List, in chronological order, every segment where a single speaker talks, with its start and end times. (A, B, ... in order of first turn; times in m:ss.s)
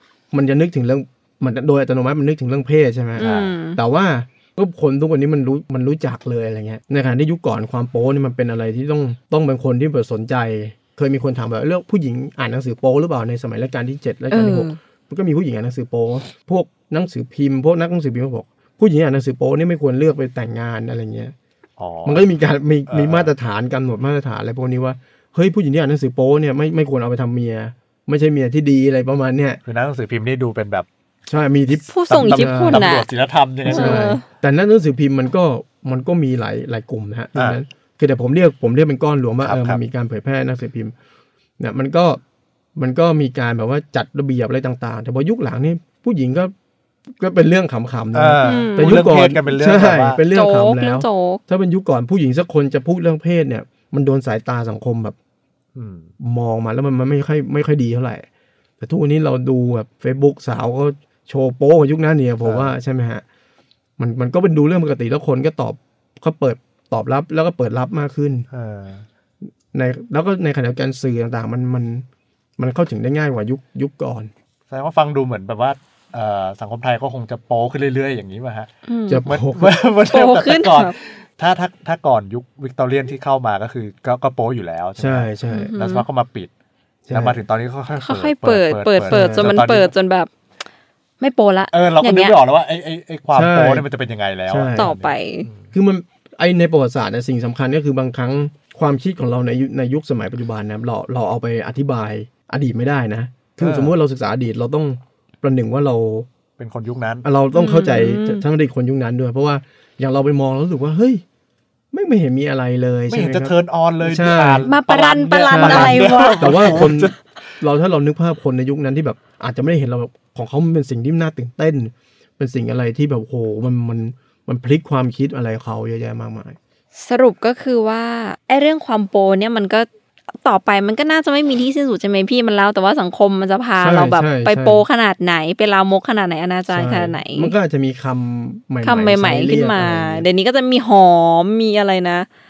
0:00.3-0:21.3 A
0:03.2-0:03.8 B
0:03.2-0:03.5 C
0:14.3-0:14.8 B
0:21.8-0:22.3 C
0:22.0-0:29.6 A
0:22.9-0:23.3 C
0:29.6-0:30.9 C
0:31.3-0:32.8 A
0:31.8-0:33.0 B
0:32.1-0:34.2 C
0:33.6-0:40.9 A
0:33.7-0:34.2 B
0:39.4-0:39.8 C
0:41.6-0:42.2 A
0:42.8-0:46.5 A
0:47.2-0:55.1 A
0:48.1-0:50.2 C
0:48.4-0:49.0 B
0:50.3-0:51.4 B
0:55.7-0:56.1 C
0:56.2-0:58.2 A
0:58.8-1:03.2 A
1:02.4-1:02.7 C
1:04.0-1:08.4 A
1:08.5-1:09.0 C
1:09.7-1:12.0 A
1:12.6-1:14.3 A
1:14.7-1:18.7 C
1:18.9-1:19.2 B
1:19.1-1:19.8 A
1:19.2-1:26.5 C
1:20.1-1:20.9 B
1:25.0-1:25.7 A
1:25.5-1:26.0 B
1:27.0-1:27.4 A
1:27.1-1:29.9 C
1:28.0-1:30.3 B
1:29.1-1:29.6 A
1:31.2-1:32.4 B
1:31.7-1:35.7 C
1:33.3-1:33.9 A
1:34.5-1:34.9 A
1:34.8-1:35.5 B
1:35.7-1:46.3 A
1:43.6-1:43.9 C
1:46.6-1:47.2 C
1:47.2-1:51.2 A
1:47.5-1:48.4 B
1:51.9-1:54.7 A
1:53.1-1:57.2 C
1:54.6-1:56.9 B
1:55.5-2:06.6 A
2:07.0-2:09.9 B
2:10.4-2:17.5 B
2:13.8-2:14.8 A
2:16.7-2:20.3 A
2:18.8-2:22.3 B